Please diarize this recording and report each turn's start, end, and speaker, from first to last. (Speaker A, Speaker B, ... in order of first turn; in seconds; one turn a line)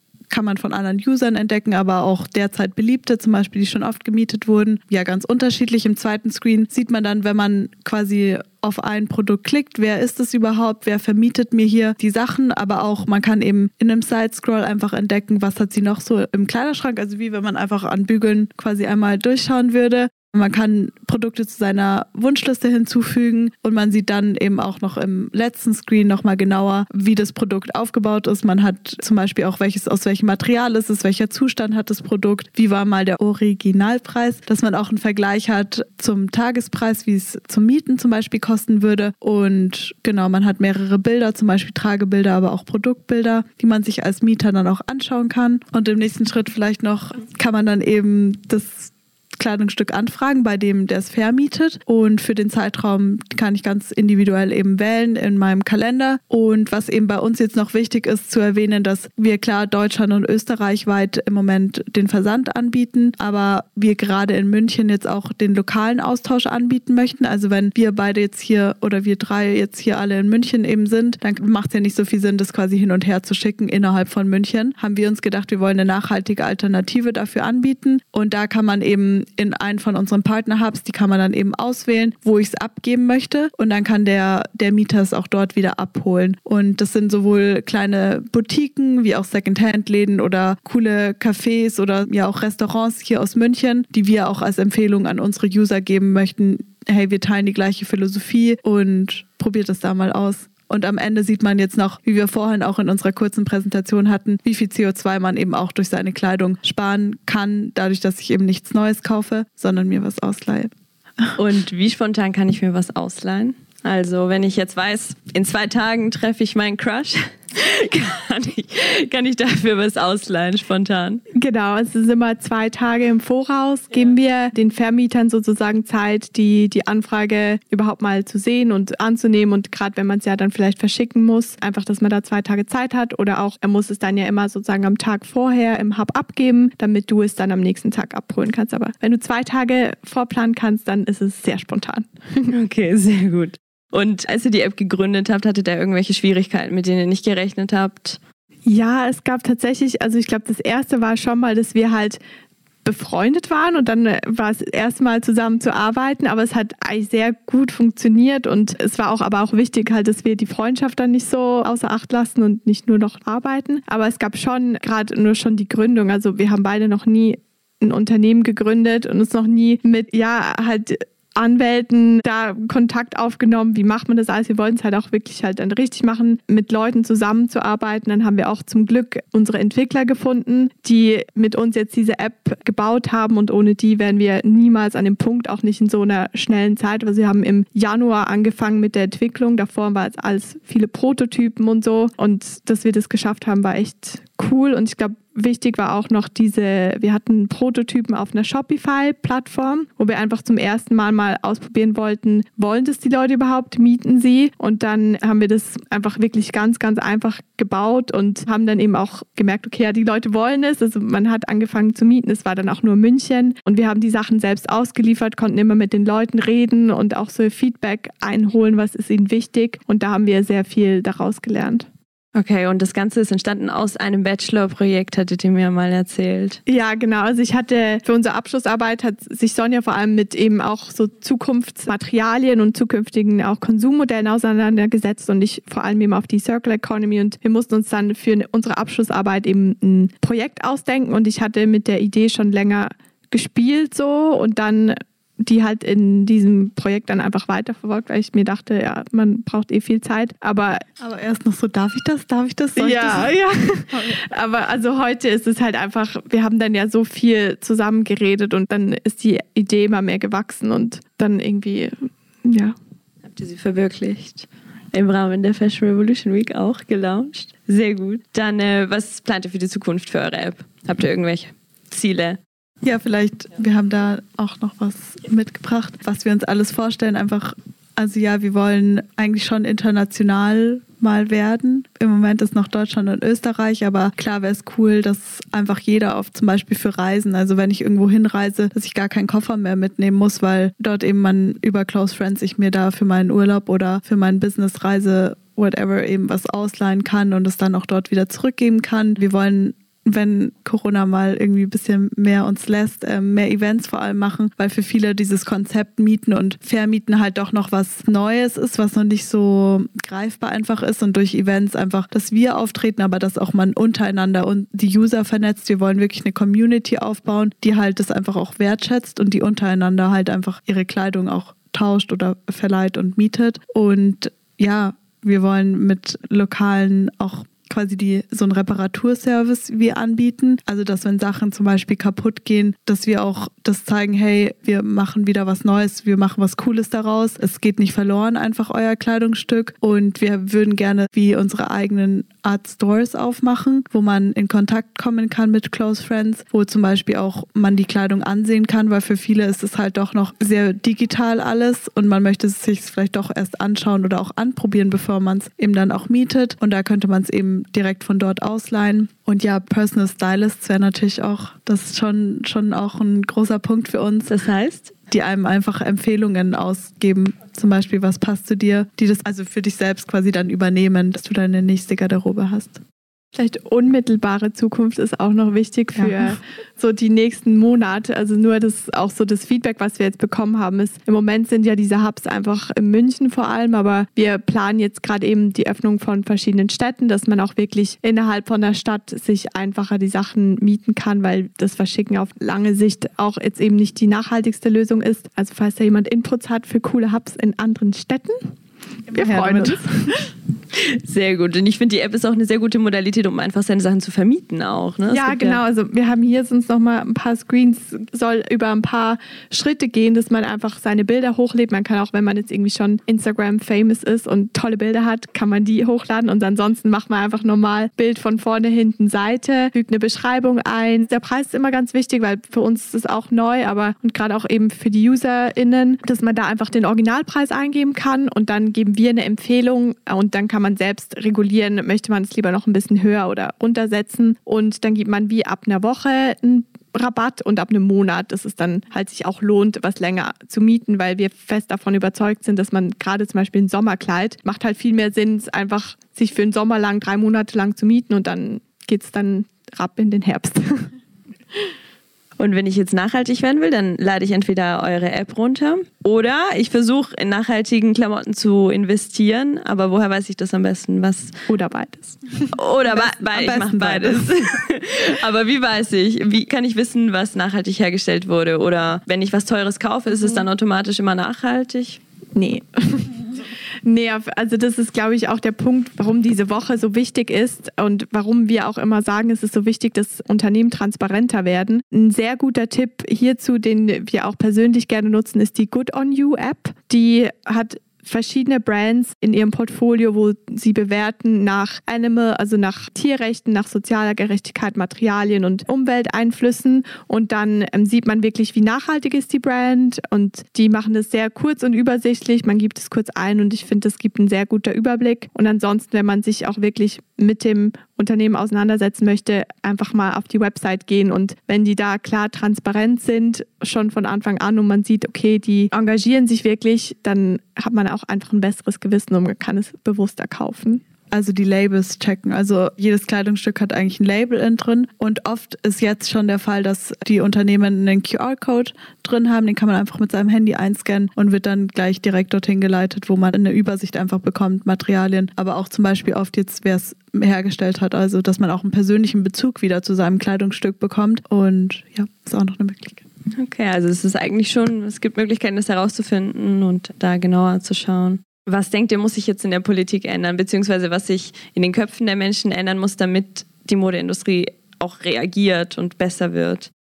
Speaker A: 0.3-110.7
Speaker B: 111.3-121.2
Speaker C: 121.3-142.5
Speaker B: 142.5-148.2
Speaker C: 148.7-152.2
Speaker C: 152.8-221.9
Speaker B: 222.3-226.6
Speaker C: 226.7-250.8
Speaker A: 251.0-254.2
Speaker C: 252.8-262.8
Speaker B: 263.3-272.4
Speaker A: 272.8-364.3
Speaker B: 364.3-364.9
Speaker A: 365.1-372.8
Speaker C: 373.3-398.5
Speaker A: 375.9-376.4
Speaker A: 399.1-400.1
Speaker C: 399.1-400.1
Speaker B: 400.7-405.6
Speaker C: 405.1-450.9
Speaker B: 452.4-461.4
Speaker C: 461.5-462.5
Speaker B: 462.5-472.0
Speaker A: 462.9-464.3
Speaker C: 472.3-473.3
Speaker C: 473.8-520.8
Speaker A: 521.1-543.0
Speaker B: 543.4-556.7